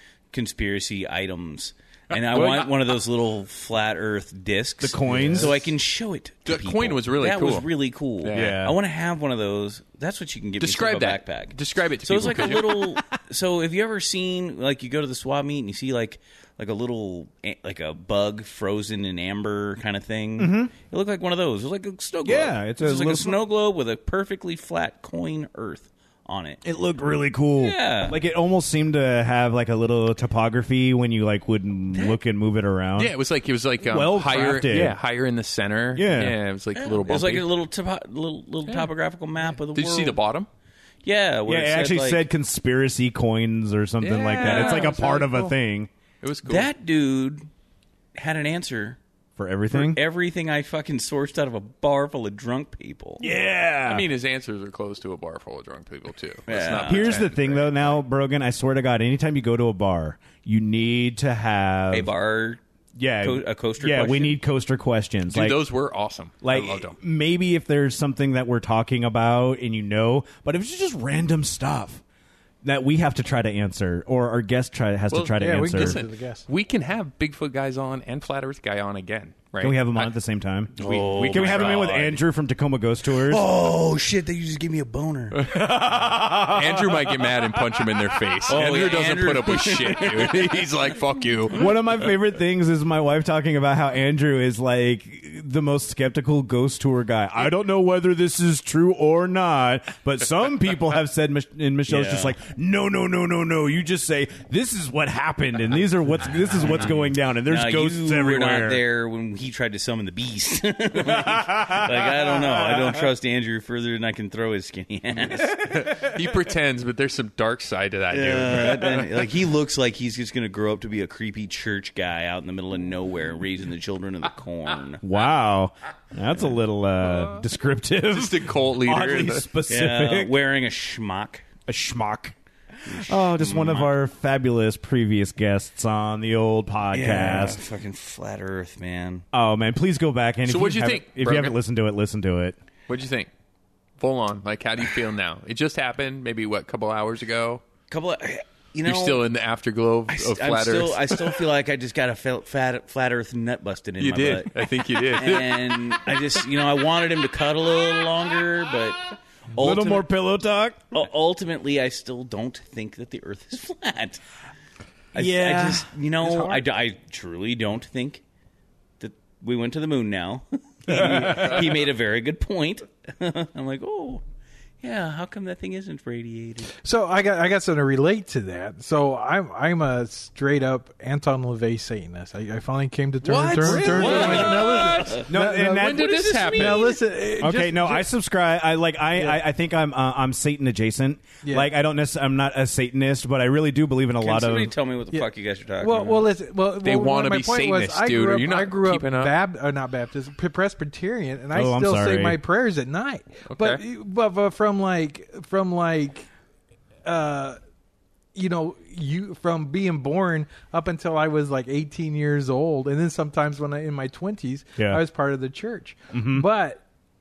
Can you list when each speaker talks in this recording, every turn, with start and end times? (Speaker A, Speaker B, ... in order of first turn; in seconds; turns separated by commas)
Speaker A: 0.3-26.6, Speaker B: 2.1-2.9, Speaker C: 4.8-5.6, Speaker B: 5.0-5.6, Speaker B: 6.5-7.7, Speaker B: 8.2-8.6, Speaker C: 8.3-8.8, Speaker B: 10.6-12.8, Speaker C: 20.4-20.7, Speaker C: 22.2-23.4, Speaker C: 26.6-33.1, Speaker A: 27.6-28.2, Speaker A: 31.9-32.2, Speaker B: 33.0-37.5, Speaker C: 33.9-35.0, Speaker C: 36.0-36.4, Speaker A: 36.8-40.2, Speaker B: 39.7-40.5, Speaker A: 41.0-42.2, Speaker C: 41.5-45.9, Speaker B: 44.0-45.5, Speaker A: 44.4-44.9, Speaker B: 46.2-46.7, Speaker A: 46.5-47.5, Speaker A: 48.1-49.0, Speaker C: 49.4-50.0, Speaker A: 49.7-53.2, Speaker C: 53.2-54.1, Speaker B: 53.9-57.8, Speaker A: 56.5-57.1, Speaker C: 56.9-62.1, Speaker A: 61.9-62.6, Speaker C: 63.0-65.7, Speaker A: 63.2-64.4, Speaker B: 65.3-67.0, Speaker C: 66.4-72.0, Speaker C: 72.6-76.0, Speaker B: 75.1-80.1, Speaker D: 75.4-76.4, Speaker C: 79.6-83.5, Speaker B: 80.8-82.0, Speaker A: 80.8-82.2, Speaker A: 83.1-85.4, Speaker B: 85.3-91.7, Speaker C: 85.5-87.2, Speaker A: 88.5-90.5, Speaker C: 91.5-108.8, Speaker A: 101.9-102.3, Speaker A: 106.7-115.6, Speaker C: 111.1-113.0, Speaker B: 115.6-119.1, Speaker A: 118.1-125.0, Speaker C: 125.0-130.3, Speaker B: 128.1-129.5, Speaker A: 129.7-131.5, Speaker C: 131.7-132.4, Speaker A: 132.9-133.9, Speaker C: 132.9-137.7, Speaker A: 136.9-139.3, Speaker C: 139.3-142.6, Speaker B: 140.5-141.6, Speaker B: 142.9-143.3, Speaker B: 144.0-147.6, Speaker A: 147.9-149.2, Speaker B: 148.8-151.4, Speaker A: 150.1-160.1, Speaker B: 154.0-156.0, Speaker C: 159.6-160.9, Speaker A: 160.9-164.2, Speaker C: 165.2-166.6, Speaker A: 165.2-168.2, Speaker A: 169.0-174.2, Speaker C: 170.9-171.7, Speaker A: 174.8-176.8, Speaker D: 176.7-188.1, Speaker B: 183.2-187.0, Speaker C: 183.6-184.4, Speaker A: 183.9-185.3, Speaker C: 185.3-186.1, Speaker A: 186.0-187.0, Speaker C: 187.4-194.7, Speaker A: 194.2-196.3, Speaker D: 195.8-206.3, Speaker B: 196.8-199.3, Speaker C: 201.5-202.4, Speaker B: 203.5-203.8, Speaker D: 207.1-207.6, Speaker D: 208.3-216.8, Speaker C: 214.8-215.0, Speaker C: 216.1-216.5